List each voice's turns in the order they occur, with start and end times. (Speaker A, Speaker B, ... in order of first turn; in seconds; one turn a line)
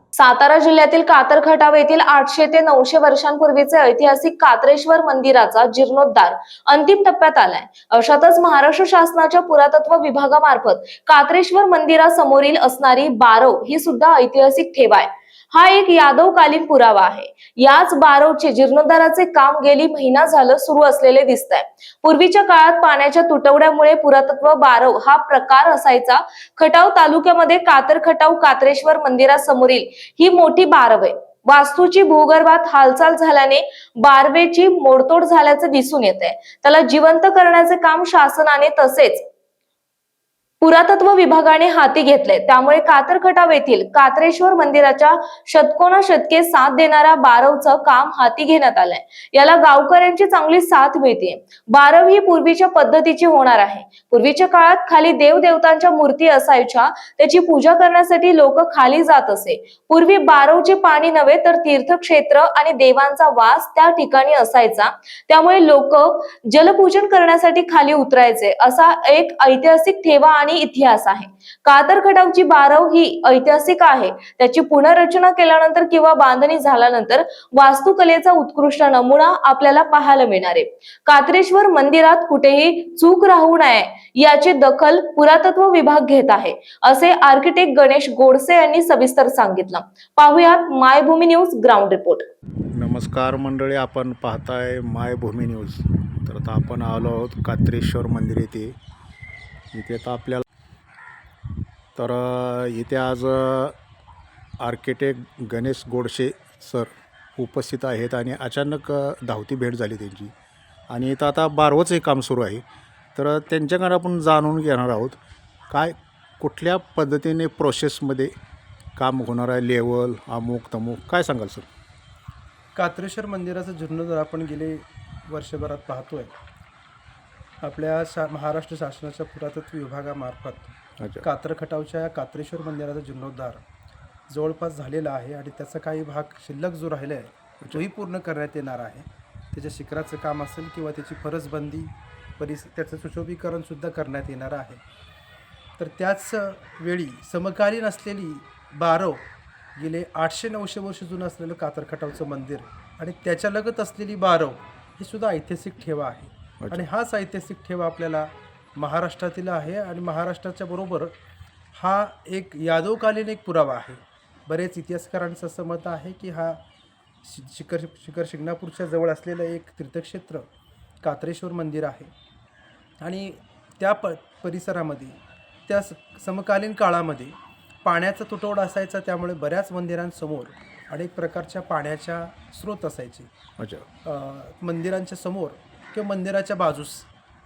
Speaker A: 0.1-39.2
Speaker A: 40.6-92.3
Speaker B: 92.8-98.8
Speaker B: 99.7-100.5
Speaker B: 102.0-103.8
Speaker B: 104.6-110.3
Speaker B: 110.9-112.6
Speaker B: 113.2-115.2
Speaker B: 115.7-118.3
Speaker B: 119.0-121.7
Speaker C: 122.8-126.3
Speaker C: 127.6-133.6
Speaker B: 131.0-131.2
Speaker C: 134.3-144.8
Speaker C: 145.8-149.2
Speaker C: 149.8-161.2
Speaker B: 156.6-156.9
Speaker C: 161.7-166.6
Speaker C: 167.2-170.5
Speaker C: 171.0-172.1
Speaker C: 173.0-183.3
Speaker B: 183.6-183.9
Speaker C: 184.0-187.1